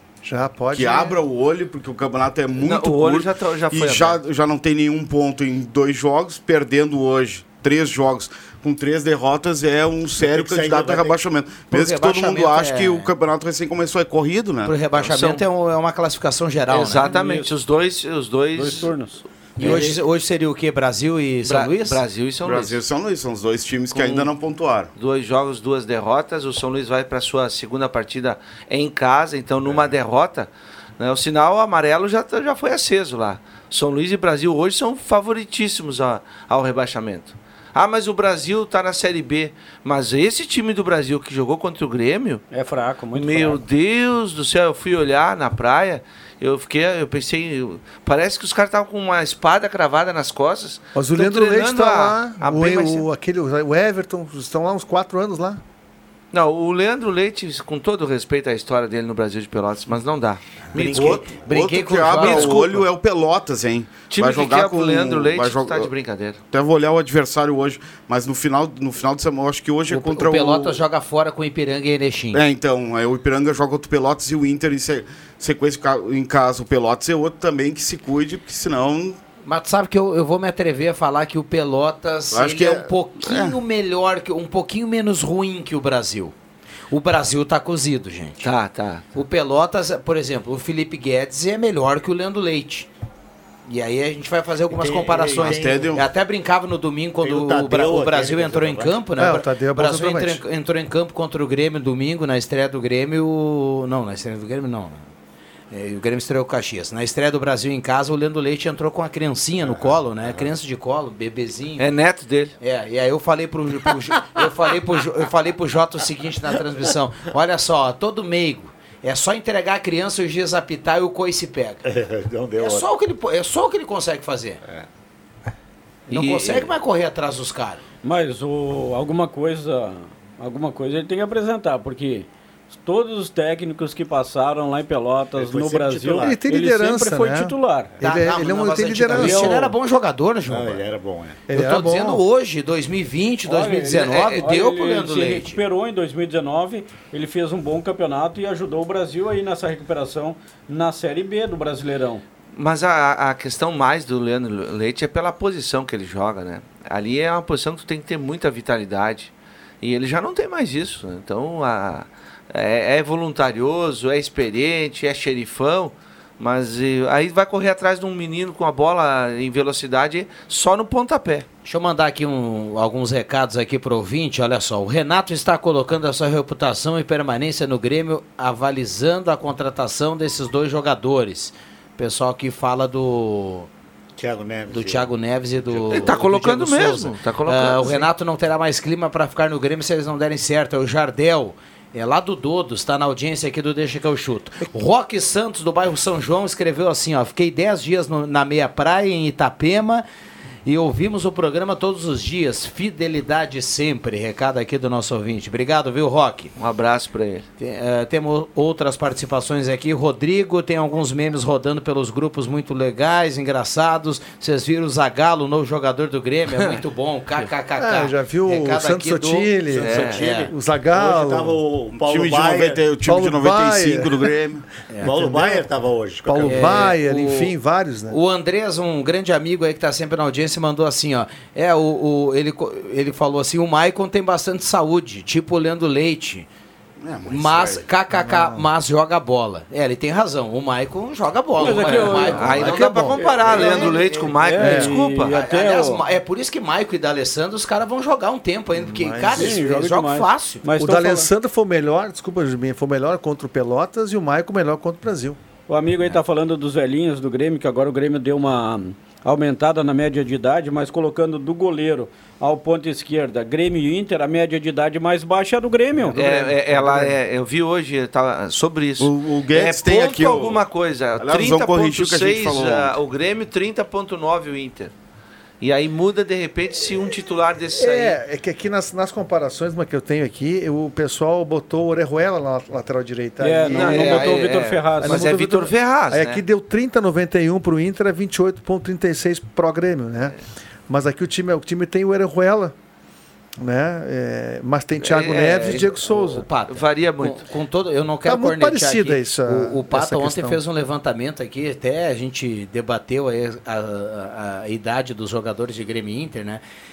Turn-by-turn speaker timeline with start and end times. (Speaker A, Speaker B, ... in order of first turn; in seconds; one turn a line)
Speaker A: 0.2-1.2
Speaker B: 0.7-14.7
Speaker C: 2.6-4.2
Speaker D: 10.2-11.2
Speaker E: 11.7-13.1
Speaker E: 14.6-17.1
Speaker C: 15.0-15.4
Speaker C: 16.7-18.9
Speaker F: 17.0-17.5
Speaker F: 18.5-19.2
Speaker E: 19.6-22.0
Speaker D: 19.6-20.0
Speaker C: 21.4-22.8
Speaker B: 22.4-24.9
Speaker C: 23.9-24.3
Speaker C: 24.9-42.4
Speaker F: 42.5-43.6
Speaker C: 43.1-53.0
Speaker A: 50.9-55.6
Speaker C: 56.3-61.3
Speaker E: 60.7-62.7
Speaker B: 60.8-65.9
Speaker C: 62.1-62.9
Speaker C: 64.1-66.4
Speaker B: 66.5-70.8
Speaker E: 69.9-72.4
Speaker B: 72.3-79.2
Speaker E: 79.4-86.3
Speaker B: 82.3-83.6
Speaker E: 86.9-88.5
Speaker C: 88.4-89.0
Speaker E: 89.1-92.9
Speaker E: 93.7-105.0
Speaker D: 94.7-95.9
Speaker B: 95.4-96.0
Speaker D: 97.2-99.0
Speaker A: 99.2-100.4
Speaker E: 105.7-111.8
Speaker D: 109.6-110.5
Speaker C: 111.8-112.5
Speaker E: 112.6-121.8
Speaker D: 121.8-122.9
Speaker E: 122.6-124.6
Speaker E: 126.1-127.8
Speaker C: 126.1-126.7
Speaker F: 128.0-132.3
Speaker F: 132.8-137.9
Speaker D: 135.3-136.4
Speaker A: 136.2-139.7
Speaker E: 138.0-140.8
Speaker F: 139.1-139.7
Speaker D: 140.5-141.4
Speaker A: 141.5-142.2
Speaker E: 141.5-145.6
Speaker F: 143.4-152.2
Speaker C: 143.9-144.5
Speaker C: 152.5-171.4
Speaker E: 171.6-183.7
Speaker D: 184.2-185.1
Speaker E: 184.7-200.0
Speaker D: 185.6-186.2
Speaker C: 185.9-188.1
Speaker E: 200.7-206.5
Speaker C: 206.6-207.4
Speaker E: 207.6-220.5
Speaker A: 217.8-221.6
Speaker C: 219.8-220.2
Speaker D: 220.0-222.8
Speaker B: 222.0-224.7
Speaker A: 223.0-224.3
Speaker D: 225.0-226.9
Speaker A: 225.0-225.7
Speaker A: 226.2-228.2
Speaker E: 226.4-227.5
Speaker E: 228.1-236.5
Speaker B: 237.0-237.8
Speaker E: 237.3-242.6
Speaker A: 238.1-238.7
Speaker F: 241.6-242.8
Speaker A: 242.0-244.9
Speaker C: 242.3-245.4
Speaker F: 243.7-246.0
Speaker E: 245.2-250.6
Speaker A: 248.7-249.6
Speaker F: 249.3-251.3
Speaker A: 250.8-255.4
Speaker F: 255.7-266.4
Speaker C: 266.1-274.9
Speaker A: 266.7-267.1
Speaker B: 269.0-270.6
Speaker B: 271.2-272.9
Speaker C: 275.6-278.2
Speaker A: 277.8-284.4
Speaker F: 283.4-285.3
Speaker C: 283.7-286.4
Speaker A: 285.0-290.4
Speaker A: 290.9-292.7
Speaker A: 293.6-296.4
Speaker C: 295.0-296.1
Speaker E: 296.1-306.6
Speaker C: 296.7-297.5
Speaker A: 298.2-300.6